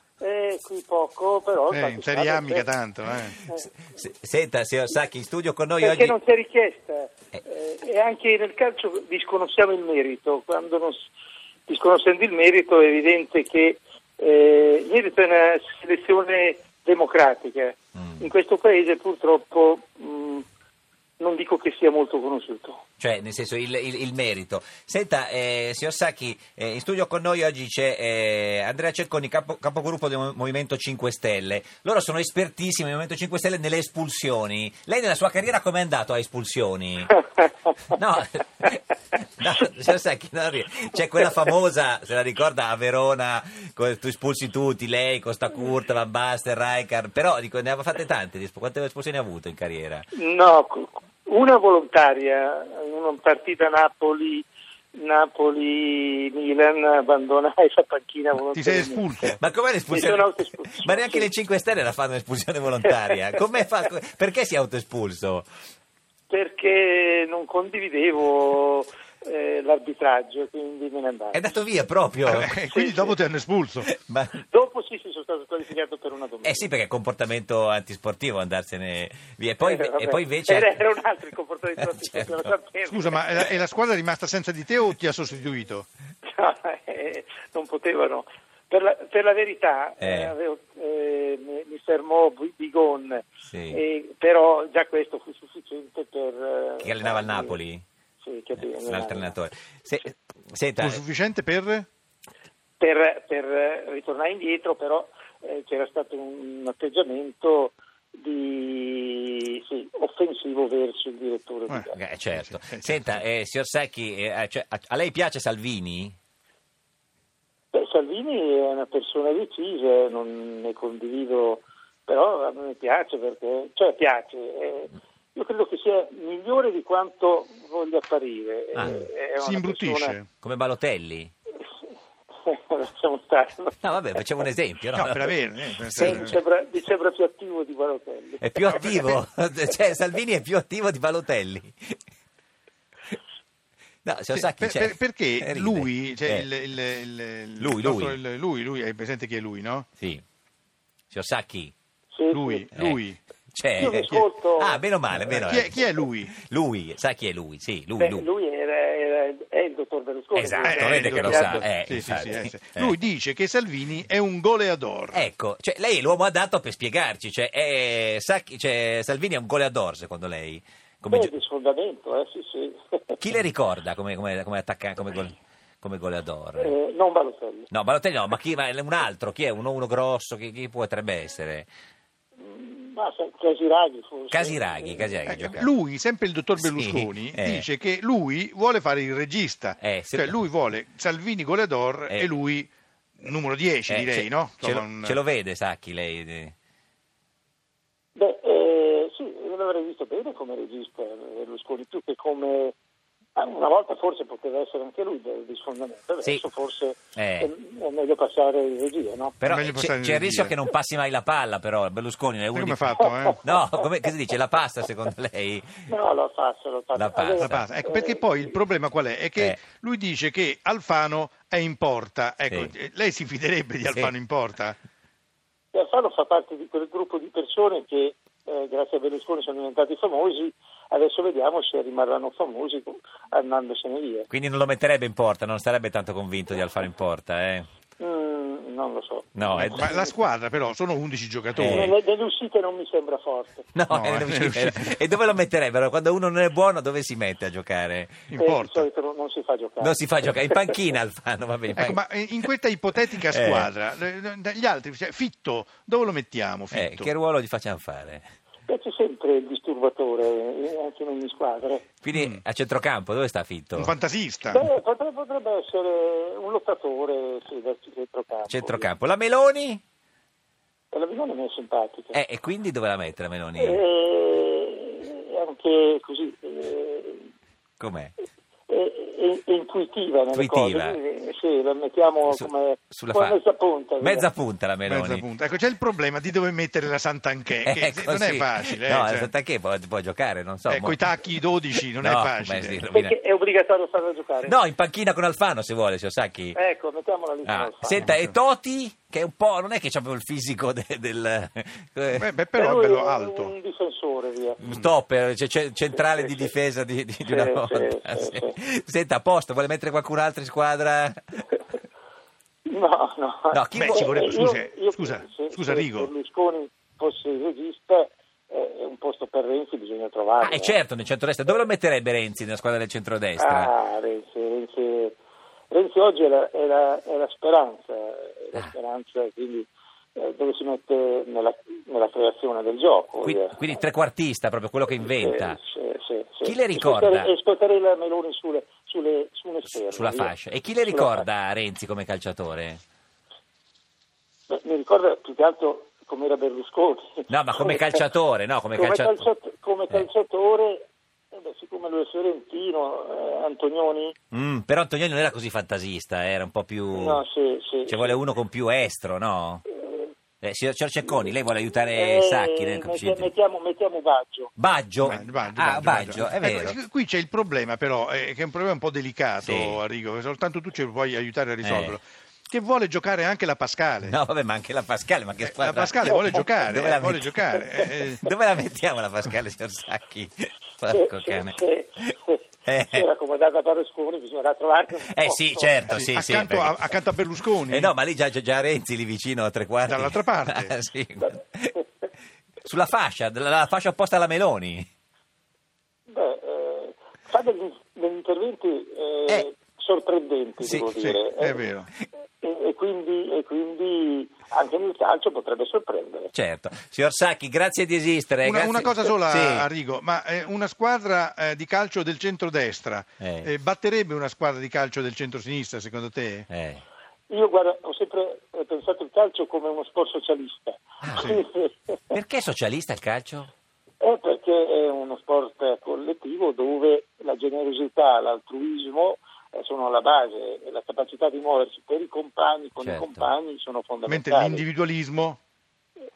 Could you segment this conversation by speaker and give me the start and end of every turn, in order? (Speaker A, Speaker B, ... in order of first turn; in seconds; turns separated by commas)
Speaker A: 0.2-2.7, Speaker B: 1.7-3.4, Speaker C: 3.4-6.2, Speaker A: 5.8-11.1, Speaker A: 11.7-20.4, Speaker C: 18.0-18.2, Speaker A: 21.2-22.8, Speaker C: 23.0-37.2, Speaker C: 37.9-50.1, Speaker A: 50.1-59.1, Speaker B: 58.5-59.4, Speaker C: 59.4-65.5, Speaker A: 59.9-61.3, Speaker A: 62.9-63.1, Speaker A: 66.3-71.4, Speaker C: 71.3-72.5, Speaker B: 72.3-73.9, Speaker A: 72.7-73.2, Speaker C: 73.8-74.4, Speaker A: 74.4-76.7, Speaker C: 76.4-80.8, Speaker A: 79.6-83.5, Speaker C: 81.8-82.5, Speaker B: 82.9-85.9, Speaker A: 86.3-97.6, Speaker C: 90.0-90.3, Speaker C: 93.5-93.8, Speaker C: 96.8-97.8, Speaker A: 98.2-99.4, Speaker C: 98.8-101.0, Speaker B: 100.8-101.9, Speaker A: 102.8-112.0, Speaker B: 111.7-113.0, Speaker C: 111.9-116.2, Speaker A: 117.7-130.2, Speaker C: 128.8-129.0, Speaker B: 128.8-130.3, Speaker C: 130.4-131.3, Speaker A: 132.4-133.9, Speaker C: 133.8-136.4, Speaker B: 134.9-136.4, Speaker A: 135.9-139.0, Speaker C: 138.4-142.0, Speaker B: 138.7-139.2, Speaker C: 144.1-146.5, Speaker B: 144.3-149.9, Speaker C: 147.6-148.2, Speaker C: 151.1-151.7, Speaker A: 152.1-152.7, Speaker B: 152.3-153.2, Speaker C: 152.7-153.0, Speaker C: 153.5-158.3, Speaker A: 153.8-154.8, Speaker B: 153.9-154.2, Speaker B: 155.1-156.4, Speaker A: 158.0-161.7, Speaker C: 160.3-162.9, Speaker B: 160.6-165.2, Speaker C: 165.1-171.4, Speaker A: 171.1-173.2, Speaker C: 173.2-176.8, Speaker A: 176.6-177.7, Speaker C: 177.7-181.7, Speaker A: 182.4-185.6, Speaker C: 184.3-185.7, Speaker B: 185.3-195.2, Speaker C: 186.6-187.7, Speaker C: 189.8-190.4, Speaker C: 193.9-196.5, Speaker A: 198.2-202.8, Speaker A: 203.4-209.4, Speaker C: 207.2-207.5, Speaker C: 209.4-215.9, Speaker B: 209.4-210.6, Speaker B: 212.5-213.4, Speaker A: 215.9-218.6, Speaker C: 216.9-217.7, Speaker B: 217.4-224.8, Speaker A: 225.7-234.3, Speaker C: 234.3-237.7, Speaker A: 238.0-240.2, Speaker C: 239.3-239.9, Speaker B: 239.6-241.9, Speaker C: 241.6-241.9, Speaker A: 241.7-243.7, Speaker C: 243.7-248.2, Speaker B: 243.9-245.0, Speaker B: 248.3-248.9, Speaker A: 248.3-250.7, Speaker C: 249.8-252.0, Speaker B: 251.8-257.1, Speaker C: 253.2-253.7, Speaker C: 256.7-258.3, Speaker A: 258.7-261.9, Speaker C: 262.0-263.9, Speaker B: 262.1-262.4, Speaker B: 263.8-264.7, Speaker A: 264.5-268.9, Speaker C: 268.5-269.8, Speaker A: 270.9-272.2, Speaker C: 272.1-273.8, Speaker A: 273.6-277.3, Speaker C: 277.8-278.1, Speaker A: 278.7-284.3, Speaker C: 280.3-281.0, Speaker C: 282.3-283.4, Speaker C: 284.0-285.2, Speaker B: 284.9-289.3, Speaker C: 287.6-293.1, Speaker B: 290.7-292.8, Speaker A: 292.9-294.6, Speaker C: 294.4-296.6, Speaker A: 296.5-298.1, Speaker C: 297.4-302.3, Speaker B: 298.0-298.3, Speaker B: 302.2-303.5, Speaker A: 302.5-304.6, Speaker C: 304.6-311.6, Speaker A: 305.9-306.5, Speaker A: 307.3-308.5, Speaker A: 312.7-320.8, Speaker C: 313.5-314.5, Speaker B: 313.8-316.1, Speaker C: 320.4-323.7, Speaker A: 323.4-325.2, Speaker A: 325.7-333.7, Speaker C: 333.2-335.6, Speaker A: 335.0-340.3, Speaker C: 336.4-337.3, Speaker C: 339.8-342.8, Speaker A: 340.8-341.3, Speaker A: 344.5-348.1, Speaker C: 347.3-349.2, Speaker A: 348.8-354.1, Speaker C: 354.3-357.2, Speaker A: 356.9-358.2, Speaker C: 357.9-359.6, Speaker A: 359.8-360.1, Speaker C: 360.4-363.3, Speaker A: 361.9-364.5, Speaker C: 364.6-366.8, Speaker B: 365.0-374.2, Speaker C: 369.4-369.8, Speaker C: 371.6-372.0, Speaker C: 374.1-382.1, Speaker B: 375.4-378.2, Speaker A: 380.9-385.8, Speaker C: 382.7-383.1, Speaker C: 385.1-386.9, Speaker B: 385.9-387.9, Speaker C: 387.6-391.8, Speaker B: 389.9-390.8, Speaker C: 392.6-394.9, Speaker A: 396.1-401.6, Speaker C: 400.6-401.2, Speaker B: 401.1-401.9, Speaker A: 402.4-406.3, Speaker C: 406.3-409.7, Speaker B: 408.4-416.5, Speaker C: 413.2-413.5, Speaker C: 416.5-416.8, Speaker A: 417.3-422.2, Speaker C: 421.0-421.3, Speaker C: 422.1-423.5, Speaker A: 424.0-434.6, Speaker C: 432.8-433.3, Speaker B: 434.1-435.4